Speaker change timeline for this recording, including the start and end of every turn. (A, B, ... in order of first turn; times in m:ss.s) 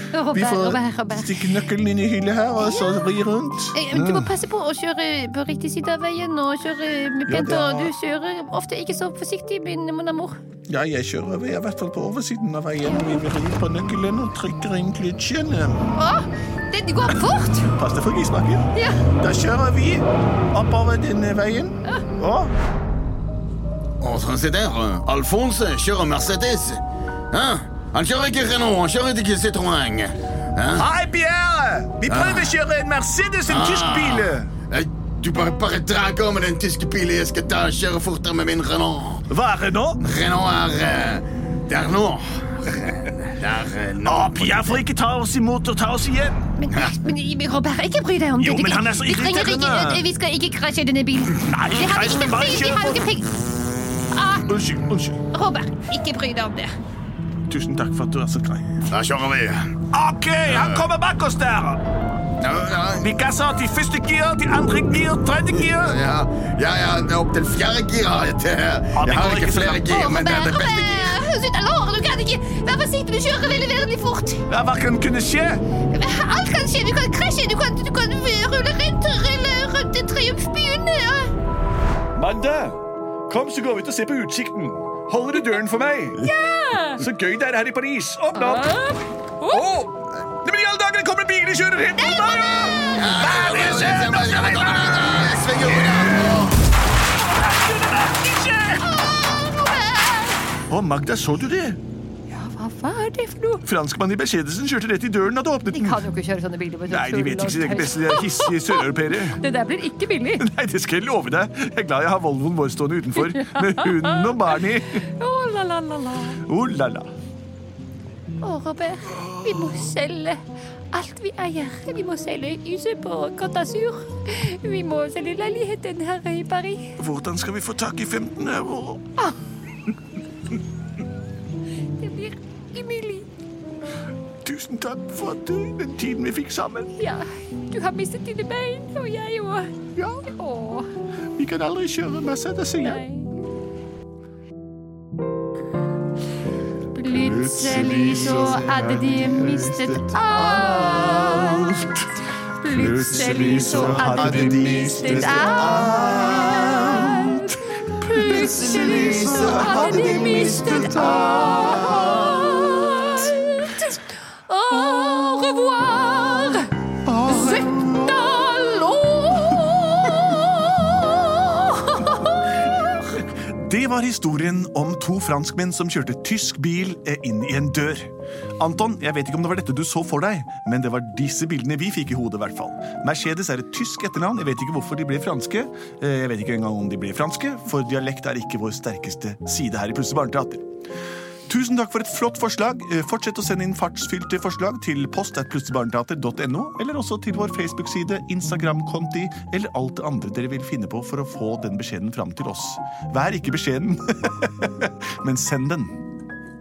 0:00.1-0:01.5 A
0:00.3-0:04.3 B
0:03.7-0:10.4 A
0:07.3-0:07.9 B
0:10.7-0:15.8 B
0:15.9-0:17.7 A
0:17.6-0:22.5 B
0:18.7-0:19.0 A
0:24.0-0:30.8 C
0:30.7-0:34.5 B
0:32.1-0:32.5 C
0:33.5-0:39.2 C
0:39.3-0:40.0 B
0:40.0-0:44.7 C
0:44.0-0:46.5 B
0:46.6-0:53.4 A
0:48.4-0:50.0 B
0:51.4-0:53.0 B
0:54.1-0:54.5 A
0:54.4-0:55.2 B
0:55.3-0:56.7 A
0:57.4-0:58.9 B
0:58.9-0:59.7 C
0:59.9-1:01.8 B
1:00.4-1:00.9 C
1:02.4-1:03.1 C
1:03.0-1:06.0 B
1:05.6-1:11.2 C
1:08.9-1:09.9 B
1:09.9-1:14.4 A
1:14.5-1:15.6 B
1:15.9-1:21.3 A
1:22.1-1:26.3 B
1:26.2-1:27.0 A
1:27.0-1:28.7 B
1:28.3-1:29.6 A
1:29.5-1:36.5 B
1:32.0-1:33.0 A
1:32.9-1:36.5 C
1:37.4-1:38.8 B
1:38.7-1:40.4 A
1:40.7-1:41.8 B
1:42.3-1:43.6 A
1:43.6-1:46.0 B
1:45.7-1:50.5 A
1:46.9-1:49.4 B
1:50.4-1:55.1 B
1:53.5-1:54.3 A
1:55.1-1:56.4 A
1:56.4-1:57.1 B
1:58.4-2:00.4 A
2:00.9-2:06.9 A
2:07.0-2:09.1 B
2:12.0-2:13.2 A
2:14.4-2:17.0 B
2:17.0-2:19.7 A
2:20.0-2:20.3 B
2:20.2-2:20.9 A
2:21.3-2:23.0 B
2:22.8-2:23.3 A
2:26.9-2:31.8 A
2:27.1-2:32.2 B
2:27.2-2:28.6 C
2:32.6-2:37.6 A
2:32.7-2:34.1 C
2:32.8-2:42.6 B
2:38.1-2:46.7 A
2:39.4-2:40.7 C
2:47.0-2:48.4 B
2:47.2-2:53.0 A
2:53.1-3:10.6 B
3:11.5-3:26.0 B